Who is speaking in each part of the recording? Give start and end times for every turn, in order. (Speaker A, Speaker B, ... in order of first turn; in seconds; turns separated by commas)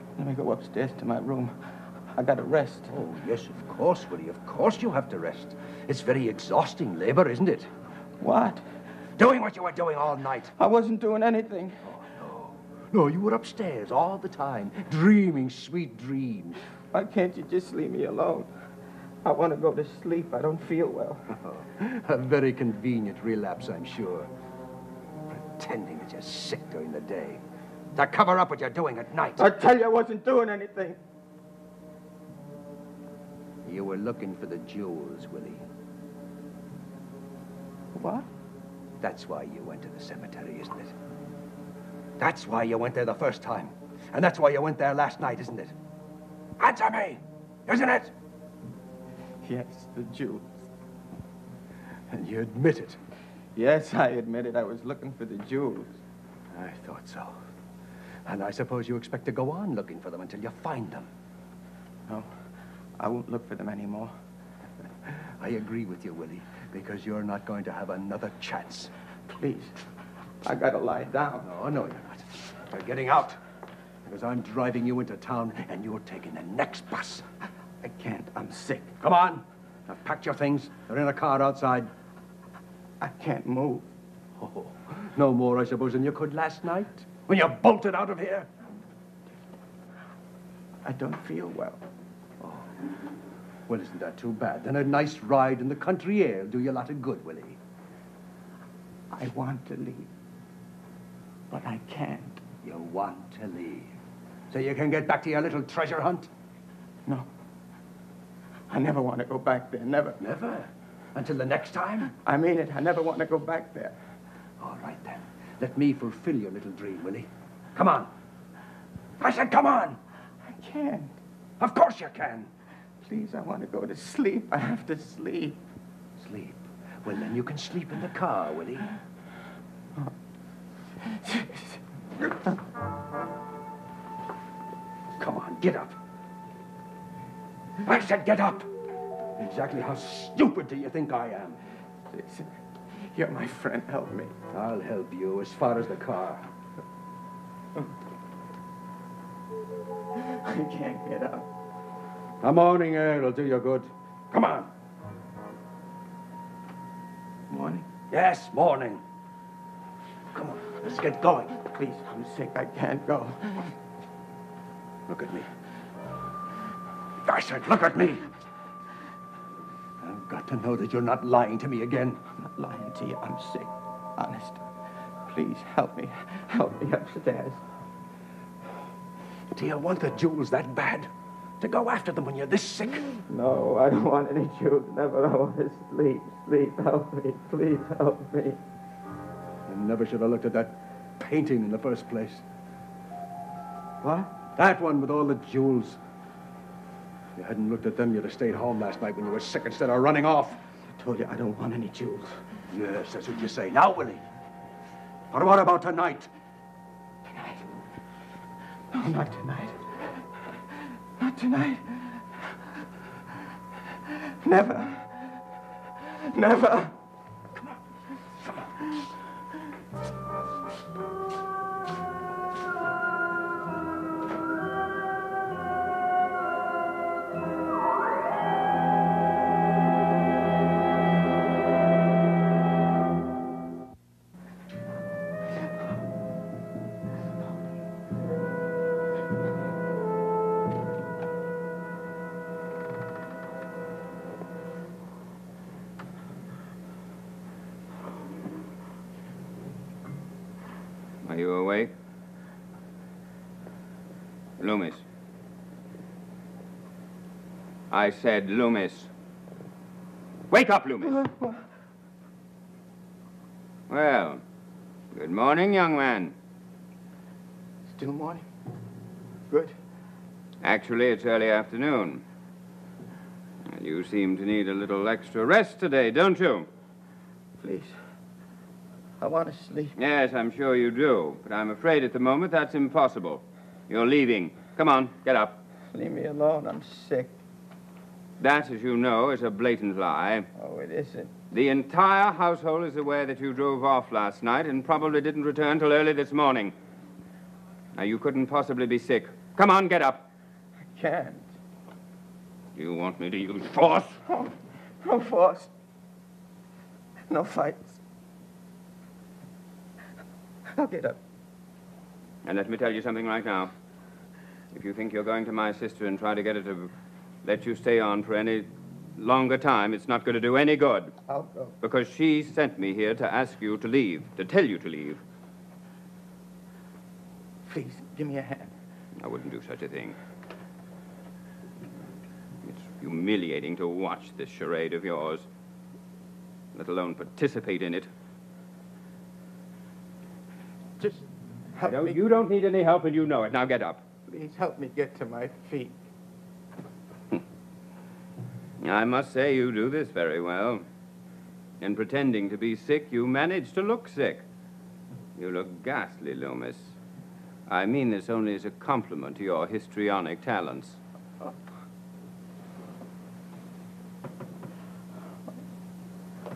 Speaker A: 0.2-3.0, Speaker B: 2.9-7.7, Speaker A: 8.2-8.6, Speaker B: 9.2-10.5, Speaker A: 10.6-11.9, Speaker B: 11.9-16.6, Speaker A: 16.9-18.5, Speaker A: 19.2-21.3, Speaker B: 21.4-24.3, Speaker B: 25.3-27.4, Speaker B: 27.9-29.5, Speaker A: 29.4-31.0, Speaker B: 33.6-35.6, Speaker A: 37.9-38.3, Speaker B: 39.0-40.9, Speaker B: 42.2-45.8, Speaker B: 46.6-48.1, Speaker A: 49.4-50.5, Speaker B: 52.1-53.0, Speaker A: 53.5-55.9, Speaker B: 56.5-57.4, Speaker B: 58.2-61.1, Speaker A: 62.1-62.4, Speaker A: 63.0-64.1, Speaker B: 65.1-68.9, Speaker A: 69.3-69.8, Speaker A: 70.4-71.5, Speaker B: 71.4-73.4, Speaker B: 74.0-77.3, Speaker A: 77.8-79.0, Speaker B: 79.0-81.9, Speaker A: 83.0-83.9, Speaker B: 84.4-88.5, Speaker A: 90.8-91.8, Speaker B: 92.4-92.7, Speaker B: 93.7-97.6, Speaker A: 99.1-100.1, Speaker A: 101.5-102.4, Speaker B: 102.6-103.9, Speaker B: 104.5-106.3, Speaker A: 108.7-110.2, Speaker B: 110.2-112.1, Speaker A: 112.1-114.0, Speaker B: 114.6-118.1, Speaker B: 119.2-120.0, Speaker A: 120.4-121.2, Speaker B: 121.6-122.5, Speaker A: 123.0-125.6, Speaker B: 126.2-128.9, Speaker A: 131.0-132.6, Speaker B: 135.2-136.0, Speaker B: 137.8-138.7, Speaker B: 139.4-141.6, Speaker A: 142.1-144.3, Speaker B: 144.5-146.5, Speaker A: 150.2-151.5, Speaker B: 152.4-154.7, Speaker A: 157.5-157.9, Speaker B: 158.1-159.0, Speaker B: 160.3-161.6, Speaker A: 161.6-163.8, Speaker B: 165.1-165.5, Speaker B: 167.2-168.3, Speaker B: 170.0-172.2, Speaker A: 172.4-174.7, Speaker A: 175.2-177.6, Speaker B: 179.5-183.2, Speaker A: 183.3-188.6, Speaker B: 189.7-192.4, Speaker A: 194.0-194.3, Speaker B: 194.5-196.0, Speaker B: 197.3-200.6, Speaker A: 200.9-202.5, Speaker B: 202.7-204.2, Speaker B: 205.3-206.3, Speaker A: 207.2-207.7, Speaker A: 208.9-210.2, Speaker A: 211.2-212.6, Speaker A: 214.1-215.4, Speaker A: 216.0-217.0, Speaker A: 217.6-219.2, Speaker C: 251.2-251.9, Speaker C: 254.6-255.0, Speaker C: 257.9-259.1, Speaker C: 260.5-261.2, Speaker A: 261.0-261.6, Speaker C: 263.9-264.4, Speaker C: 265.1-266.3, Speaker A: 267.9-268.5, Speaker A: 269.5-269.8, Speaker C: 270.6-272.2, Speaker C: 273.6-276.7, Speaker A: 277.6-278.0, Speaker A: 279.2-279.9, Speaker C: 280.0-285.6, Speaker A: 285.9-287.3, Speaker C: 288.4-290.5, Speaker A: 290.6-291.3, Speaker C: 291.5-296.8, Speaker C: 297.9-300.3, Speaker A: 300.9-301.5, Speaker C: 302.8-304.2, Speaker A: 304.3-305.7, Speaker A: 307.3-308.0, Speaker A: 310.7-311.2, Speaker C: 312.4-313.7, Speaker C: 314.7-316.9, Speaker C: 317.4-321.1, Speaker A: 321.3-321.8, Speaker C: 321.8-325.2, Speaker A: 327.7-328.7, Speaker C: 329.2-330.2, Speaker C: 332.6-335.5, Speaker C: 336.8-338.1, Speaker A: 341.8-342.2, Speaker C: 341.8-344.1, Speaker A: 344.3-346.0, Speaker C: 348.8-350.9, Speaker C: 351.8-354.4, Speaker C: 355.4-357.0, Speaker C: 357.7-361.0